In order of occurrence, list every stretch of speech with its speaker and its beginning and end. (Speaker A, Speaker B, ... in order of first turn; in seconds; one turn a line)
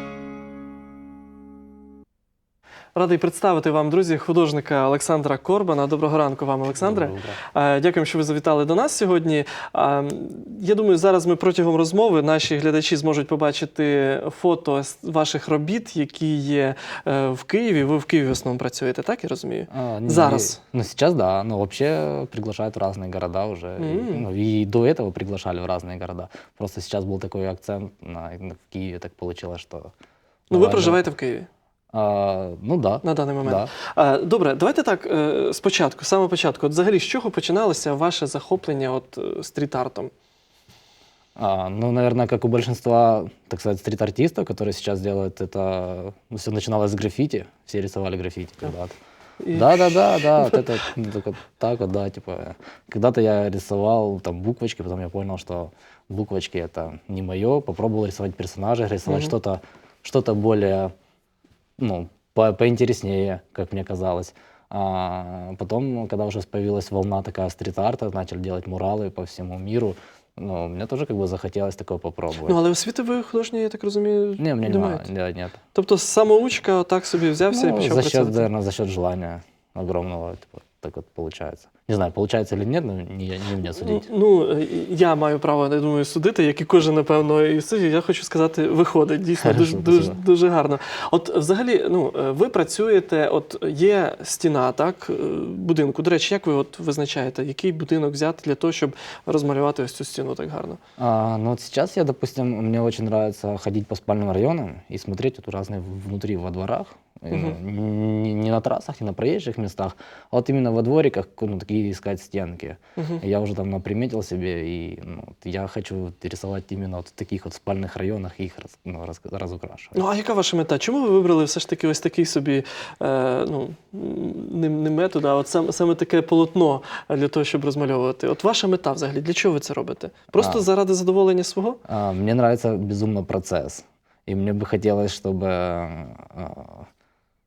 Speaker A: 2.9-20.6
Speaker B: 6.8-7.4
Speaker B: 19.7-29.9
Speaker A: 23.8-24.2
Speaker A: 30.5-31.5
Speaker B: 30.5-31.0
Speaker B: 31.9-33.7
Speaker A: 33.0-40.1
Speaker B: 41.4-48.9
Speaker A: 49.4-50.7
Speaker B: 49.5-60.9
Speaker A: 59.1-59.3
Speaker B: 61.8-72.6
Speaker A: 72.5-75.1
Speaker B: 74.4-75.6
Speaker A: 75.7-78.5
Speaker B: 77.5-84.0
Speaker A: 83.7-100.8
Speaker B: 89.4-90.2
Speaker B: 101.0-120.0
Speaker A: 107.3-107.6
Speaker A: 113.0-113.2
Speaker A: 119.9-131.8
Speaker B: 130.3-130.7
Speaker B: 131.9-136.9